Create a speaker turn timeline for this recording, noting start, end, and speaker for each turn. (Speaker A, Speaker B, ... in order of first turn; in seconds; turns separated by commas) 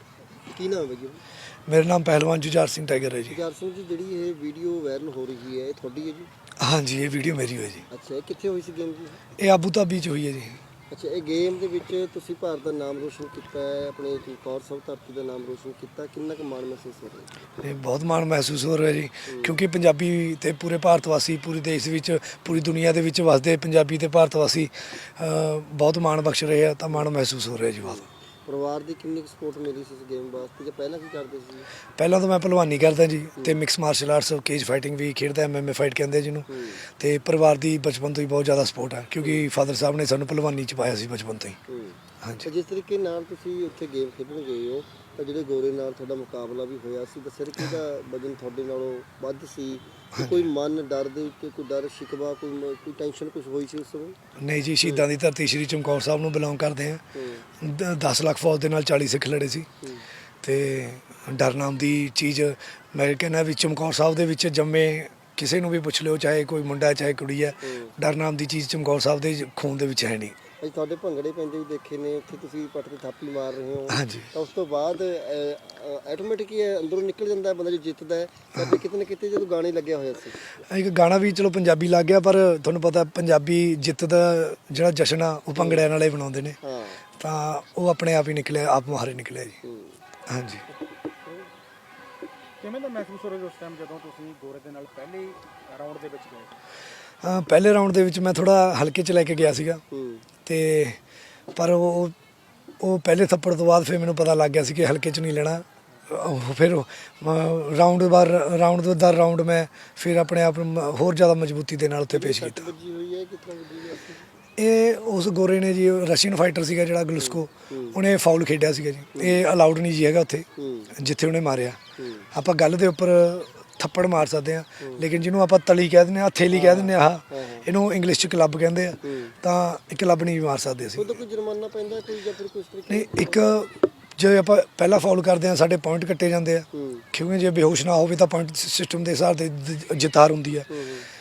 Speaker A: 0.4-1.2, Speaker B: 1.7-3.4, Speaker A: 3.3-6.3, Speaker B: 6.6-7.8, Speaker A: 7.9-9.2, Speaker B: 9.4-10.6, Speaker A: 10.9-17.4, Speaker B: 17.6-28.0, Speaker A: 19.3-19.6, Speaker A: 27.8-31.7, Speaker B: 32.0-41.6, Speaker A: 36.5-36.8, Speaker A: 41.7-54.2, Speaker B: 42.2-42.5, Speaker B: 50.1-50.5, Speaker B: 54.4-57.0, Speaker A: 54.8-55.1, Speaker A: 57.1-57.5, Speaker B: 57.6-59.7, Speaker A: 59.8-60.1, Speaker B: 60.4-70.4, Speaker A: 67.6-67.9, Speaker A: 70.6-80.4, Speaker B: 73.9-74.3, Speaker B: 80.6-86.6, Speaker A: 85.6-85.8, Speaker A: 86.6-87.0, Speaker B: 87.2-89.6, Speaker A: 89.6-90.0, Speaker B: 90.3-90.7, Speaker C: 92.6-96.5, Speaker B: 97.2-99.8, Speaker A: 99.9-100.2, Speaker B: 100.5-101.0, Speaker B: 101.5-102.1, Speaker B: 102.8-112.7, Speaker A: 112.1-114.3, Speaker B: 114.6-121.8, Speaker A: 117.2-118.0, Speaker A: 119.1-119.4, Speaker A: 120.6-120.9, Speaker A: 122.0-122.3, Speaker B: 122.3-131.2, Speaker A: 124.8-125.1, Speaker A: 126.5-127.7, Speaker A: 129.0-129.4, Speaker A: 131.0-133.5, Speaker B: 132.9-140.7, Speaker A: 136.7-137.1, Speaker A: 140.7-141.1